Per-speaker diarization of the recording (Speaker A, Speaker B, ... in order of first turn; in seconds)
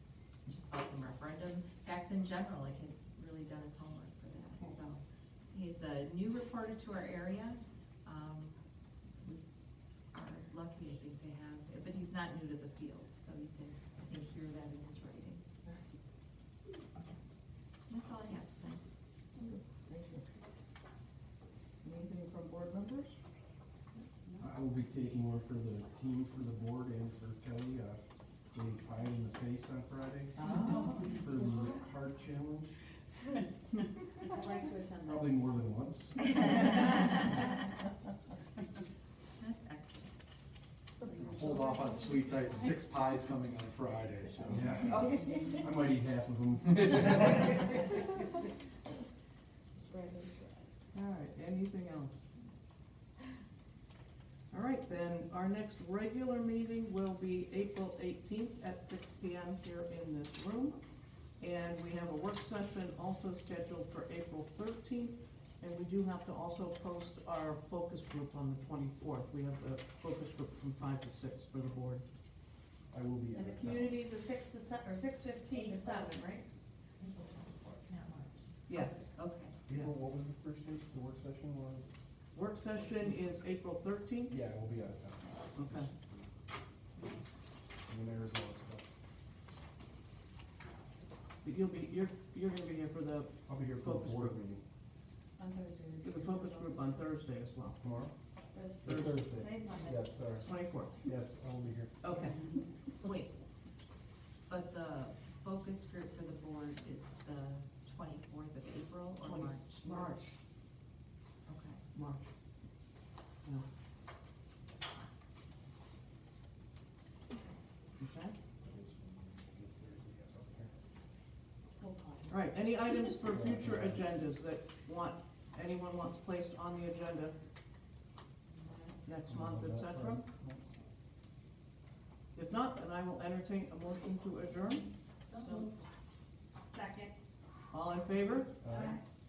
Speaker A: 0.5-8.6, 10.1-15.4, 17.9-18.8, 30.4-31.1, 39.4-40.5, 75.5-76.1, 77.0-79.5, 103.0-103.3, 104.5-110.1, 111.5-111.8, 135.3-135.8
Speaker B: 19.4-20.3, 21.8-23.2, 50.9-52.2, 54.5-60.8, 61.4-72.0, 78.7-79.1, 82.3-84.3, 85.5-85.9, 91.4-94.4, 96.0-97.8, 98.8-99.2, 100.4-101.0, 102.0-102.4, 109.2-110.4, 111.9-112.3, 118.0-118.3, 122.3-127.3, 129.0-130.3, 132.3-134.9, 137.7-138.6
Speaker C: 24.4-28.0, 28.5-32.7, 35.0-36.7, 44.5-47.7, 72.9-74.0, 79.7-82.0, 84.3-86.2, 87.8-88.8, 93.5-94.6, 97.8-98.1, 98.8-100.5, 101.0-102.0, 118.6-120.7, 123.3-124.2, 129.2-130.6, 138.6-138.9
Speaker D: 30.5-31.1, 34.2-35.3, 41.0-42.4, 49.8-50.6, 73.3-76.4, 95.4-97.0, 98.5-100.1, 121.8-122.3, 128.5-129.0, 135.3-135.7, 136.7-137.1, 138.7-139.0
Speaker E: 41.2-45.0